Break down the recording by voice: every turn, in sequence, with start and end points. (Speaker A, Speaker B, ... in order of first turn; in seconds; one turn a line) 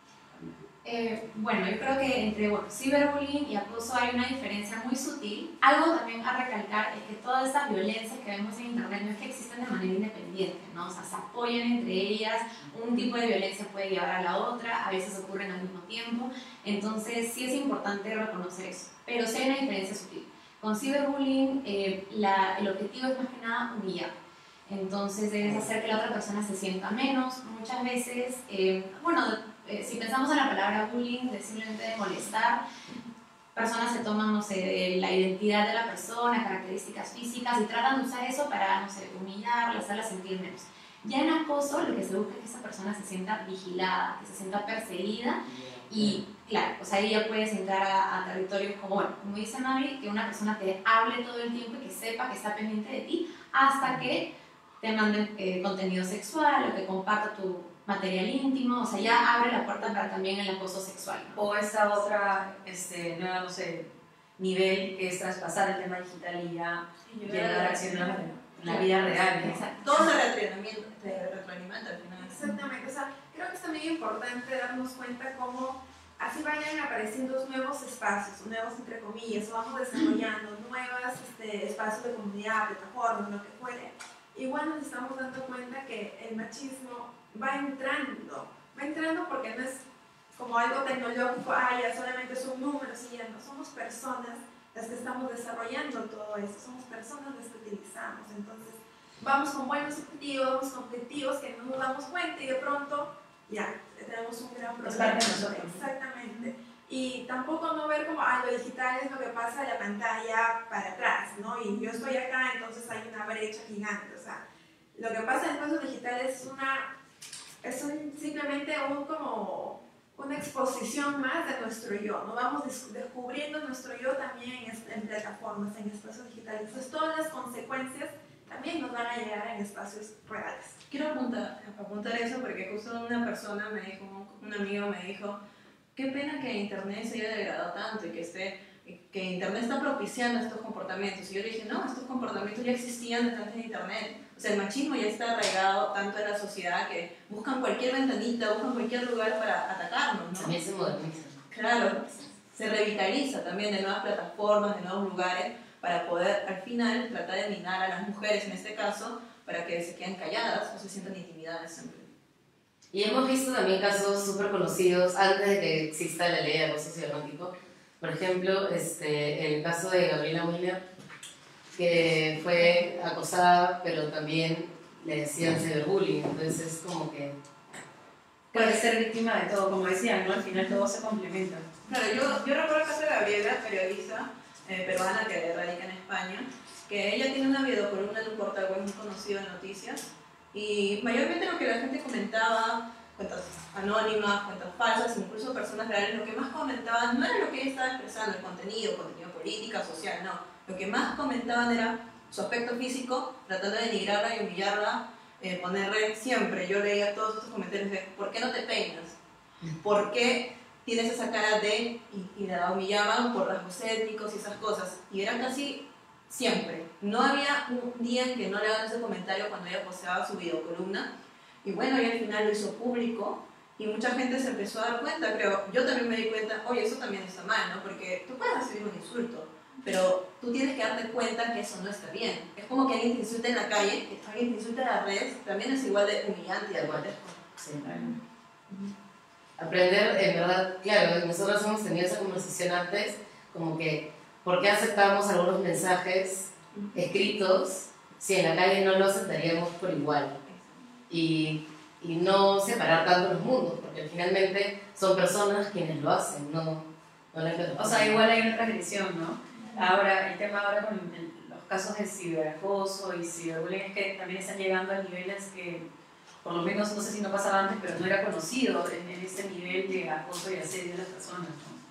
Speaker A: 0.3-0.6
Speaker B: 0.8-24.1
Speaker B: 24.7-32.6
Speaker B: 33.5-54.3
Speaker C: 45.6-46.1
Speaker B: 54.8-61.4
Speaker A: 61.4-69.6
Speaker D: 67.1-69.8
Speaker B: 69.4-69.7
Speaker E: 69.7-72.4
Speaker D: 72.2-89.8
Speaker D: 90.3-114.4
Speaker A: 104.8-105.9
Speaker D: 115.0-116.9
Speaker D: 117.6-130.8
Speaker E: 130.9-135.4
Speaker E: 135.9-150.5
Speaker C: 150.4-151.4
Speaker E: 151.5-162.1
Speaker C: 162.9-170.8
Speaker C: 171.7-177.4
Speaker A: 178.5-181.7
Speaker E: 181.8-209.2
Speaker E: 209.8-221.1
Speaker E: 221.6-238.2
Speaker C: 236.7-237.1
Speaker C: 237.6-237.8
Speaker C: 239.6-250.4
Speaker E: 250.4-250.8
Speaker C: 251.1-258.2
Speaker A: 257.8-265.8
Speaker A: 266.4-271.8